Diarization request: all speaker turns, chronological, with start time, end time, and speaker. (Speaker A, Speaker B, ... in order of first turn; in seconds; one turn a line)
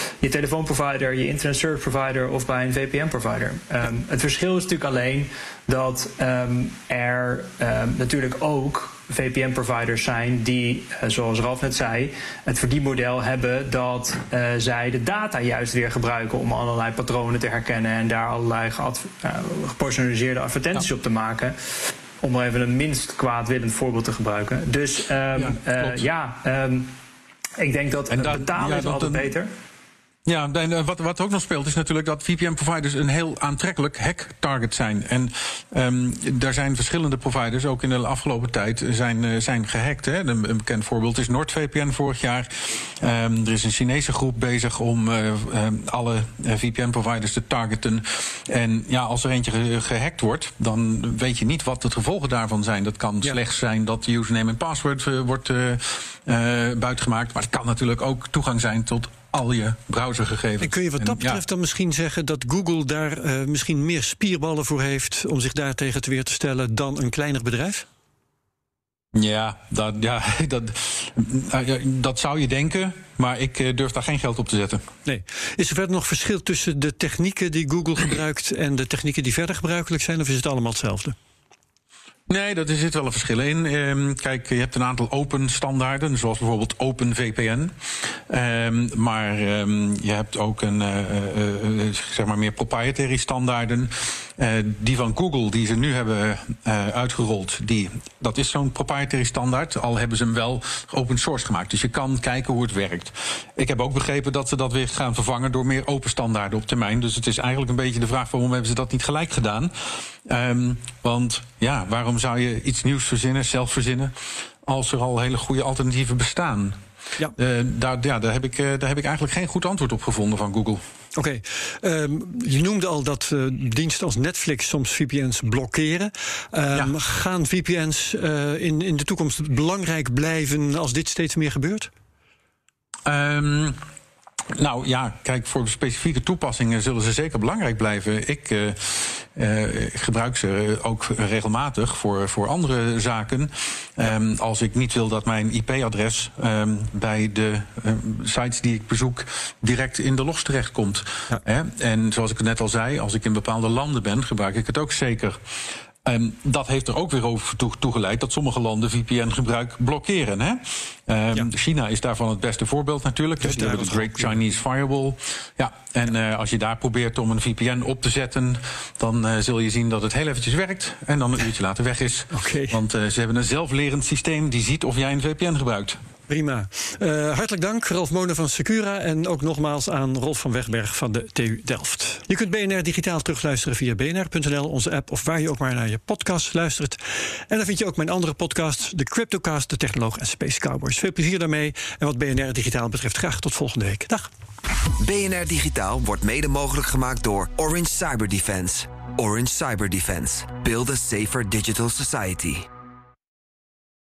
Speaker A: 0.2-21.6
Speaker A: 22.2-26.9
Speaker B: 25.4-26.0
Speaker A: 27.6-29.5
Speaker B: 28.1-29.3
Speaker B: 30.3-61.4
Speaker C: 60.6-67.9
Speaker B: 69.1-74.8
Speaker C: 75.1-81.1
Speaker B: 82.3-109.7
Speaker B: 110.3-114.1
Speaker B: 114.6-116.8
Speaker B: 117.4-120.8
Speaker C: 121.2-131.9
Speaker B: 133.1-133.8
Speaker B: 134.5-155.4
Speaker B: 156.1-176.0
Speaker C: 163.4-164.4
Speaker C: 172.3-172.8
Speaker C: 176.3-194.3
Speaker D: 195.0-202.7